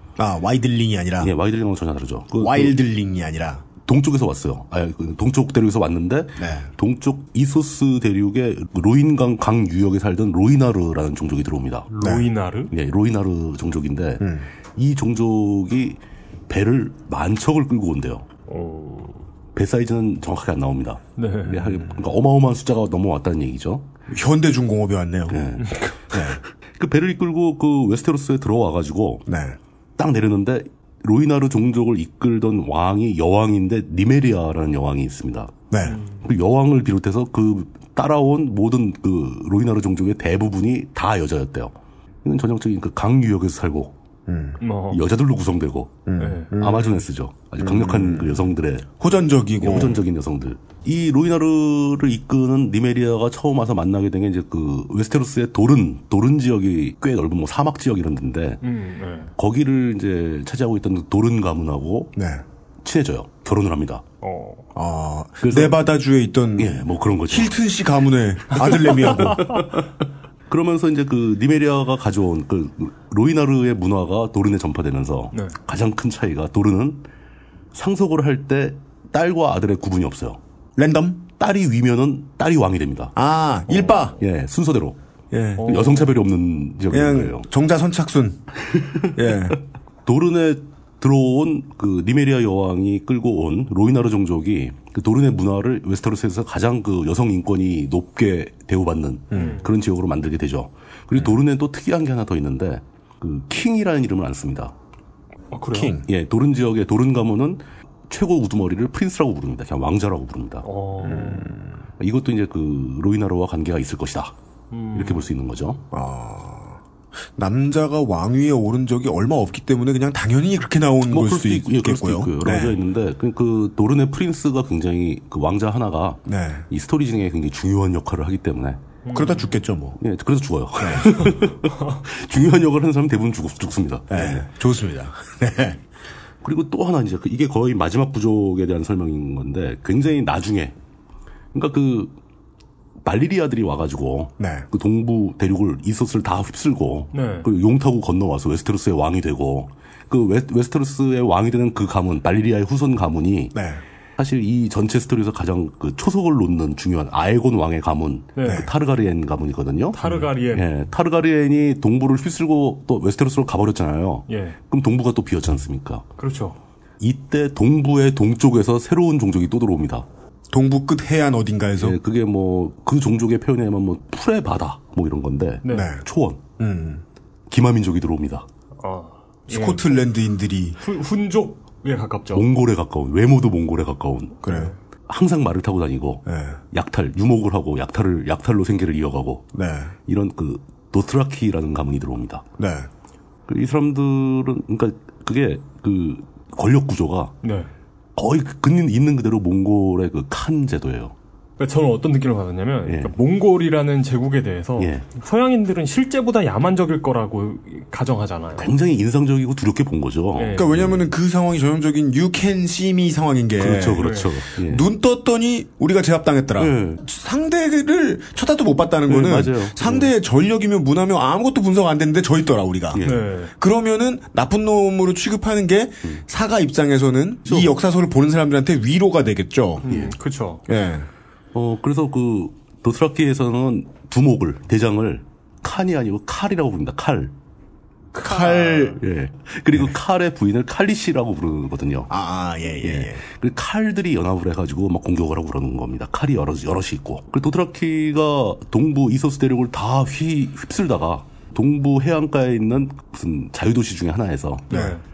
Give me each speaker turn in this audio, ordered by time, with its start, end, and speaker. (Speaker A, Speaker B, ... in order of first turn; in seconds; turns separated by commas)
Speaker A: 0.2-1.3, Speaker B: 1.2-2.8, Speaker A: 2.3-3.6, Speaker B: 3.9-11.9, Speaker A: 6.4-6.7, Speaker C: 11.9-12.7, Speaker A: 12.0-12.3, Speaker B: 12.7-18.2, Speaker A: 14.2-14.5, Speaker C: 18.5-19.2, Speaker B: 19.5-23.9, Speaker C: 21.1-21.6, Speaker A: 21.5-22.0, Speaker A: 24.1-25.4, Speaker B: 25.3-26.2, Speaker C: 25.6-25.9, Speaker A: 26.1-26.4, Speaker B: 26.8-29.2, Speaker A: 29.2-29.6, Speaker B: 30.0-35.6, Speaker A: 35.7-36.0, Speaker C: 35.8-36.2, Speaker B: 36.2-43.9, Speaker A: 44.3-44.6, Speaker C: 44.6-45.0, Speaker B: 44.9-46.0, Speaker A: 46.0-46.9, Speaker C: 46.2-46.6, Speaker B: 46.5-48.9, Speaker A: 47.6-50.0, Speaker B: 49.6-58.6, Speaker C: 58.6-59.3, Speaker B: 59.4-62.1, Speaker A: 62.1-62.4, Speaker B: 62.8-64.0, Speaker C: 64.2-64.7, Speaker A: 64.7-69.6, Speaker B: 65.4-65.8, Speaker B: 66.6-67.5, Speaker B: 69.1-69.8, Speaker B: 70.5-77.0, Speaker C: 75.3-75.6, Speaker B: 77.7-80.4, Speaker A: 80.8-81.2, Speaker B: 81.4-83.1, Speaker A: 83.1-84.2, Speaker B: 84.2-85.0, Speaker A: 85.3-85.8, Speaker C: 85.6-86.1, Speaker B: 85.6-87.5, Speaker A: 86.9-89.6, Speaker B: 90.0-104.7, Speaker A: 99.3-99.6, Speaker C: 99.3-99.7, Speaker C: 105.5-106.0, Speaker A: 105.7-106.1, Speaker B: 106.0-110.7, Speaker C: 110.6-111.5, Speaker A: 111.0-111.7, Speaker B: 112.0-114.3, Speaker C: 114.7-115.3, Speaker B: 114.9-115.8, Speaker A: 115.9-116.8, Speaker A: 117.3-122.8, Speaker B: 121.0-128.8, Speaker A: 126.2-126.7, Speaker C: 129.0-129.5, Speaker A: 129.1-130.0, Speaker B: 130.0-134.5, Speaker A: 130.8-131.2, Speaker A: 134.1-135.8, Speaker B: 136.4-140.7, Speaker B: 141.5-142.1, Speaker B: 143.0-153.6, Speaker A: 144.4-144.7, Speaker C: 147.1-147.5, Speaker A: 153.5-153.8, Speaker B: 154.2-160.0, Speaker C: 158.3-158.7, Speaker C: 160.0-160.7, Speaker B: 160.5-166.1, Speaker C: 164.3-164.6, Speaker C: 166.2-166.6, Speaker B: 167.0-170.1, Speaker A: 170.5-172.0, Speaker B: 171.8-176.4, Speaker C: 175.6-175.9, Speaker A: 175.7-176.0, Speaker A: 176.6-177.0, Speaker B: 177.5-178.5, Speaker C: 178.8-180.0, Speaker A: 179.5-180.8, Speaker C: 180.8-182.5, Speaker B: 182.3-184.4, Speaker A: 184.4-184.7, Speaker C: 184.4-184.8, Speaker B: 185.1-189.5, Speaker A: 186.2-186.6, Speaker A: 189.5-189.9, Speaker B: 190.1-192.4, Speaker A: 192.6-192.9, Speaker B: 193.5-197.3, Speaker C: 197.4-197.7, Speaker B: 198.2-201.1, Speaker C: 201.6-208.7, Speaker B: 202.8-203.1, Speaker B: 204.8-205.1, Speaker B: 208.6-211.1, Speaker C: 210.3-210.7, Speaker A: 210.5-229.8, Speaker B: 213.6-214.9, Speaker C: 214.0-214.3, Speaker B: 216.6-217.0, Speaker B: 219.1-220.1, Speaker B: 222.9-223.2, Speaker C: 223.0-223.5, Speaker B: 227.4-227.7, Speaker C: 229.8-230.6, Speaker B: 229.8-230.1, Speaker A: 230.7-231.1, Speaker B: 231.5-237.3, Speaker A: 238.1-239.0, Speaker C: 238.2-238.9, Speaker B: 238.9-242.1, Speaker A: 242.1-243.2, Speaker B: 242.8-254.7, Speaker A: 254.7-254.9, Speaker C: 254.7-255.0